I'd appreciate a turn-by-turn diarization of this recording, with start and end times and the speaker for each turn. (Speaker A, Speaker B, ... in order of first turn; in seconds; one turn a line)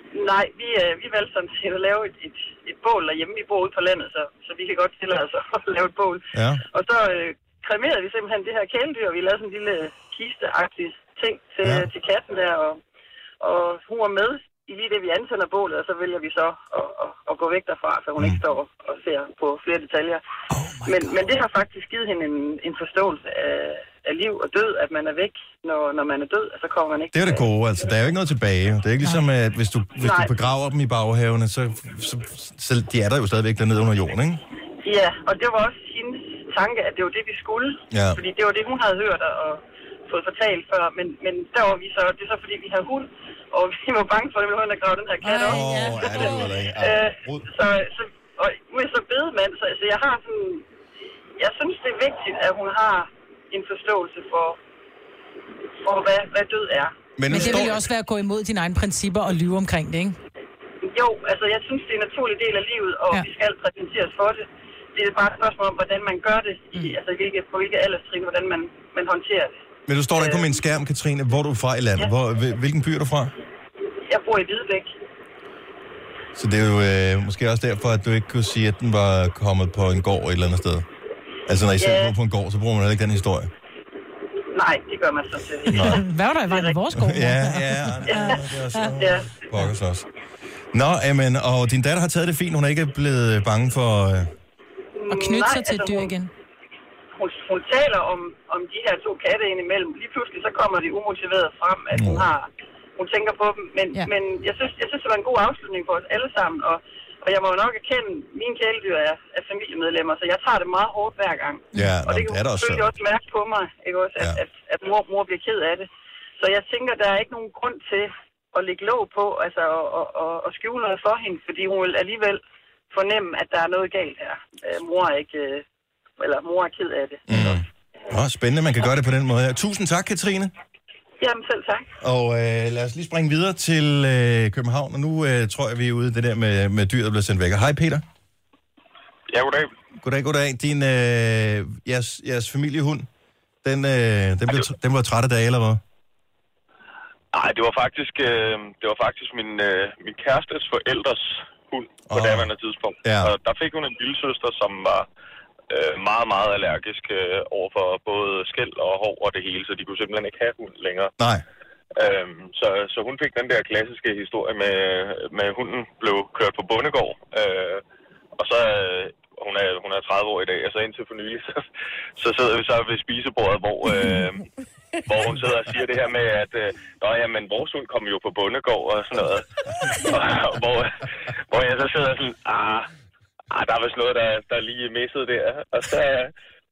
Speaker A: 0.1-12.8
Speaker B: 6.3-6.6
Speaker A: 13.4-20.2
Speaker C: 20.5-21.1
Speaker A: 20.8-27.9
Speaker B: 27.1-34.4
Speaker A: 30.0-30.3
Speaker A: 34.8-50.6
Speaker B: 37.9-38.2
Speaker C: 45.2-46.5
Speaker B: 45.4-47.5
Speaker A: 51.4-54.6
Speaker A: 55.8-57.6
Speaker B: 57.2-57.8
Speaker C: 57.3-60.2
Speaker A: 60.8-69.6
Speaker B: 69.9-73.3
Speaker A: 70.1-70.6
Speaker A: 74.1-74.9
Speaker B: 76.3-80.8
Speaker B: 81.5-83.5
Speaker A: 81.8-82.1
Speaker A: 84.5-86.8
Speaker B: 85.7-86.0
Speaker C: 85.8-88.9
Speaker B: 86.9-90.0
Speaker A: 88.0-89.3
Speaker B: 90.7-94.3
Speaker A: 95.0-96.1
Speaker C: 95.1-96.3
Speaker A: 97.2-115.9
Speaker B: 101.9-102.3
Speaker B: 111.7-112.9
Speaker A: 116.4-125.6
Speaker A: 126.2-127.6
Speaker B: 127.3-130.5
Speaker A: 131.2-131.9
Speaker B: 132.0-138.0
Speaker D: 139.3-139.7
Speaker B: 140.0-143.1
Speaker B: 143.6-145.8
Speaker D: 147.3-155.1
Speaker B: 152.1-152.5
Speaker B: 153.0-153.3
Speaker D: 155.7-161.1
Speaker B: 161.2-161.4
Speaker D: 161.9-167.8
Speaker D: 168.4-171.6
Speaker D: 172.2-174.4
Speaker D: 175.0-182.9
Speaker D: 183.5-186.3